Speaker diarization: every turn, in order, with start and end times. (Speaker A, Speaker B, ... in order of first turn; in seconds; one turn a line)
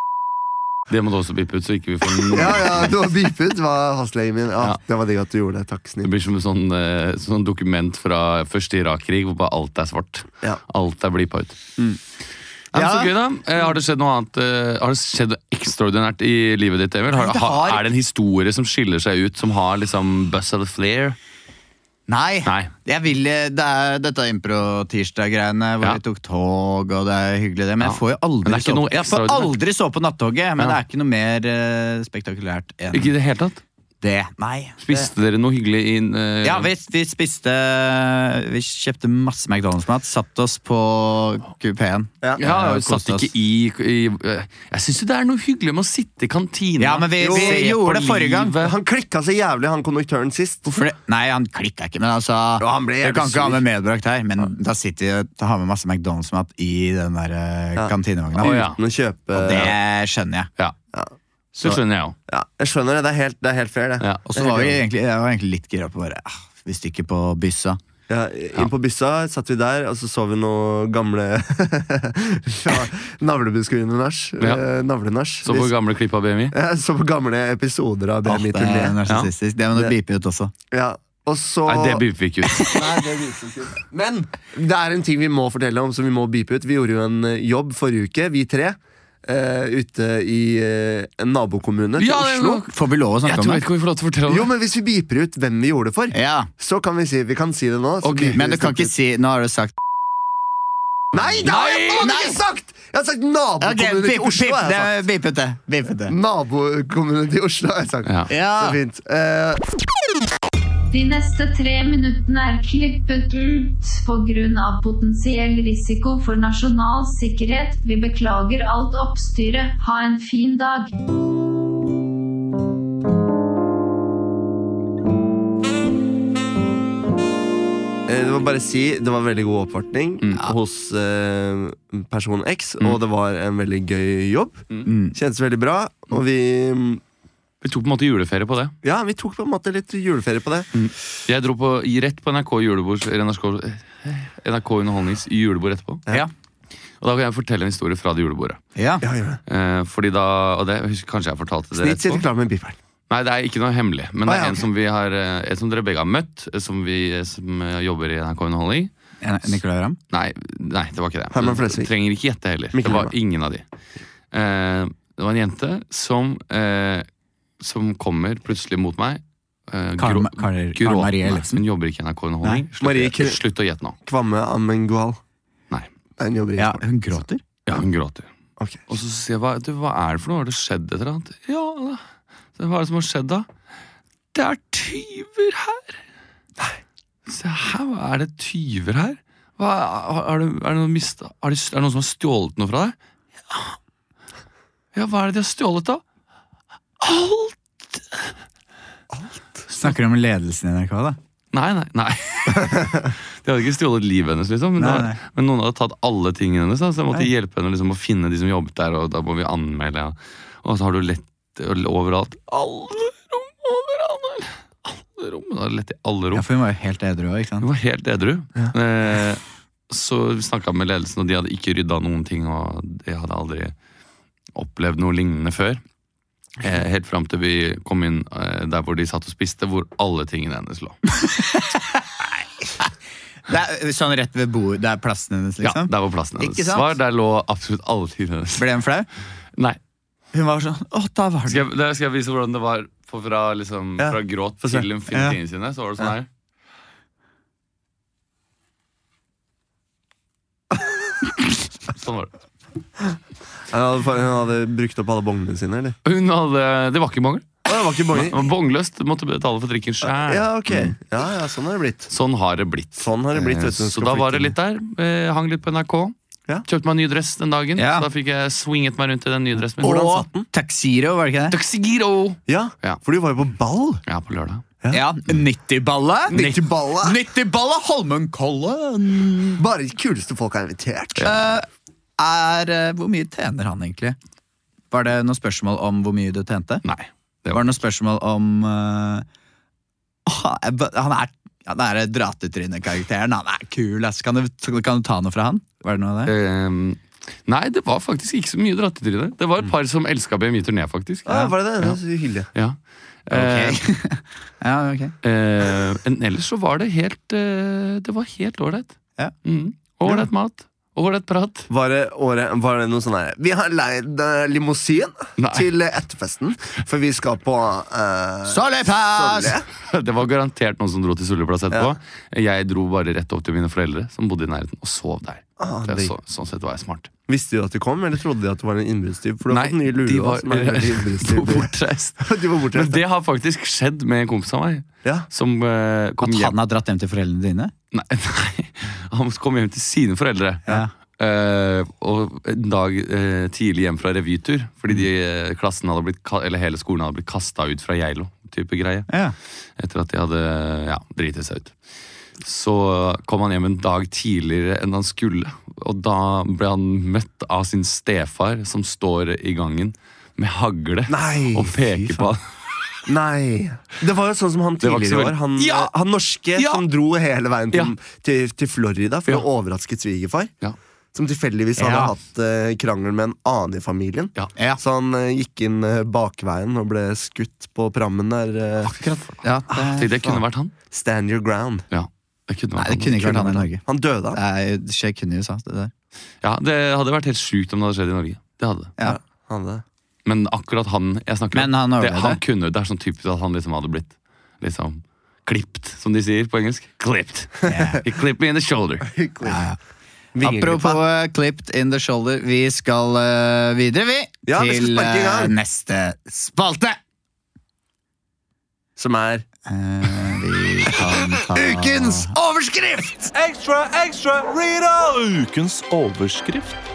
Speaker A: 0.9-2.9
Speaker B: 2.3-6.1
Speaker A: 6.0-11.6
Speaker A: 12.7-21.2
Speaker C: 12.7-13.1
Speaker C: 17.1-17.9
Speaker C: 22.1-33.1
Speaker A: 22.4-22.7
Speaker A: 27.8-29.5
Speaker A: 32.9-33.6
Speaker C: 34.0-35.1
Speaker A: 34.8-36.7
Speaker C: 36.4-43.3
Speaker A: 42.4-48.8
Speaker C: 46.8-48.5
Speaker B: 47.2-47.7
Speaker B: 48.6-50.8
Speaker C: 50.7-58.7
Speaker B: 52.6-53.6
Speaker B: 57.8-59.8
Speaker A: 58.4-58.8
Speaker C: 59.3-60.5
Speaker A: 61.5-62.1
Speaker B: 62.3-64.8
Speaker A: 64.0-64.2
Speaker C: 64.3-67.8
Speaker B: 68.1-75.7
Speaker A: 75.4-76.5
Speaker B: 76.5-79.0
Speaker C: 78.2-80.5
Speaker B: 80.7-92.6
Speaker A: 81.7-82.7
Speaker A: 92.0-92.7
Speaker C: 92.7-93.6
Speaker A: 93.2-94.5
Speaker B: 94.3-98.9
Speaker C: 96.1-96.5
Speaker A: 98.0-98.4
Speaker C: 98.3-99.7
Speaker B: 101.1-105.0
Speaker A: 101.4-102.1
Speaker C: 102.0-102.4
Speaker C: 103.6-106.1
Speaker B: 106.1-109.6
Speaker A: 108.0-108.3
Speaker C: 108.3-108.8
Speaker D: 110.9-120.9
Speaker B: 128.1-137.0
Speaker A: 130.2-130.5
Speaker C: 134.8-135.2
Speaker A: 137.6-138.7
Speaker B: 138.8-140.7
Speaker A: 140.7-146.0
Speaker A: 147.0-148.6
Speaker C: 148.8-149.0
Speaker B: 149.0-149.4
Speaker A: 149.5-152.2
Speaker B: 151.8-152.8
Speaker A: 153.1-158.9
Speaker B: 154.2-154.6
Speaker C: 159.2-160.0
Speaker A: 160.1-163.6
Speaker B: 161.3-161.9
Speaker B: 162.7-163.1
Speaker A: 164.3-167.1
Speaker A: 167.6-173.9
Speaker C: 170.0-171.6
Speaker B: 172.8-173.4
Speaker B: 174.0-175.2
Speaker B: 176.2-176.9
Speaker C: 176.6-177.4
Speaker A: 177.7-178.3
Speaker A: 178.9-182.0
Speaker A: 182.6-183.5
Speaker A: 184.3-186.0
Speaker A: 187.3-192.9
Speaker A: 193.5-193.7
Speaker A: 194.9-196.0
Speaker A: 197.0-198.2
Speaker B: 199.1-199.6
Speaker C: 199.7-201.2
Speaker A: 201.5-216.4
Speaker C: 204.8-205.2
Speaker C: 216.3-217.7
Speaker A: 217.6-223.7
Speaker A: 224.5-225.8
Speaker A: 226.6-231.0
Speaker C: 231.2-232.3
Speaker C: 233.5-236.9
Speaker A: 235.6-238.7
Speaker C: 238.6-239.1
Speaker C: 240.3-241.6
Speaker A: 241.5-246.3
Speaker B: 244.0-244.8
Speaker C: 245.1-245.4
Speaker A: 251.9-252.3
Speaker B: 253.7-255.9
Speaker A: 256.0-257.6
Speaker B: 257.6-258.5
Speaker A: 258.1-260.9
Speaker B: 260.1-262.1
Speaker A: 262.1-266.1
Speaker B: 263.0-264.5
Speaker A: 266.6-270.2
Speaker C: 267.8-268.1
Speaker B: 269.8-270.5
Speaker C: 269.8-271.6
Speaker A: 271.5-273.0
Speaker B: 272.5-274.0
Speaker A: 274.1-274.6
Speaker C: 274.9-279.6
Speaker B: 276.3-277.2
Speaker A: 276.3-276.6
Speaker B: 279.6-281.3
Speaker C: 281.2-281.6
Speaker C: 282.2-284.2
Speaker C: 284.9-286.8
Speaker A: 286.8-287.7
Speaker C: 287.5-289.2
Speaker C: 290.2-296.3
Speaker A: 296.2-302.0
Speaker B: 301.2-302.5
Speaker A: 302.5-303.8
Speaker C: 303.3-305.1
Speaker A: 305.2-311.7
Speaker B: 311.7-319.7
Speaker A: 315.4-315.7
Speaker C: 318.4-319.6
Speaker A: 319.8-327.1
Speaker B: 325.6-326.1
Speaker B: 327.3-333.0
Speaker A: 329.5-336.6
Speaker C: 336.2-337.7
Speaker A: 337.9-349.1
Speaker C: 349.1-349.4
Speaker A: 349.8-351.8
Speaker A: 352.4-362.4
Speaker B: 361.1-362.3
Speaker B: 363.1-370.5
Speaker A: 364.8-365.9
Speaker A: 366.6-366.8
Speaker B: 371.1-378.9
Speaker C: 371.8-372.1
Speaker A: 378.9-380.7
Speaker C: 379.3-380.1
Speaker B: 380.0-380.4
Speaker B: 380.9-381.9
Speaker A: 381.9-383.5
Speaker C: 382.8-385.9
Speaker B: 383.2-384.4
Speaker A: 386.4-388.9
Speaker B: 389.0-389.8
Speaker A: 390.2-399.1
Speaker C: 391.5-392.4
Speaker B: 397.7-398.0
Speaker C: 397.7-398.0
Speaker B: 399.0-399.6
Speaker C: 399.4-399.8
Speaker B: 400.3-401.0
Speaker C: 400.4-407.0
Speaker B: 404.4-405.5
Speaker B: 409.0-409.4
Speaker C: 409.7-412.4
Speaker B: 411.3-413.3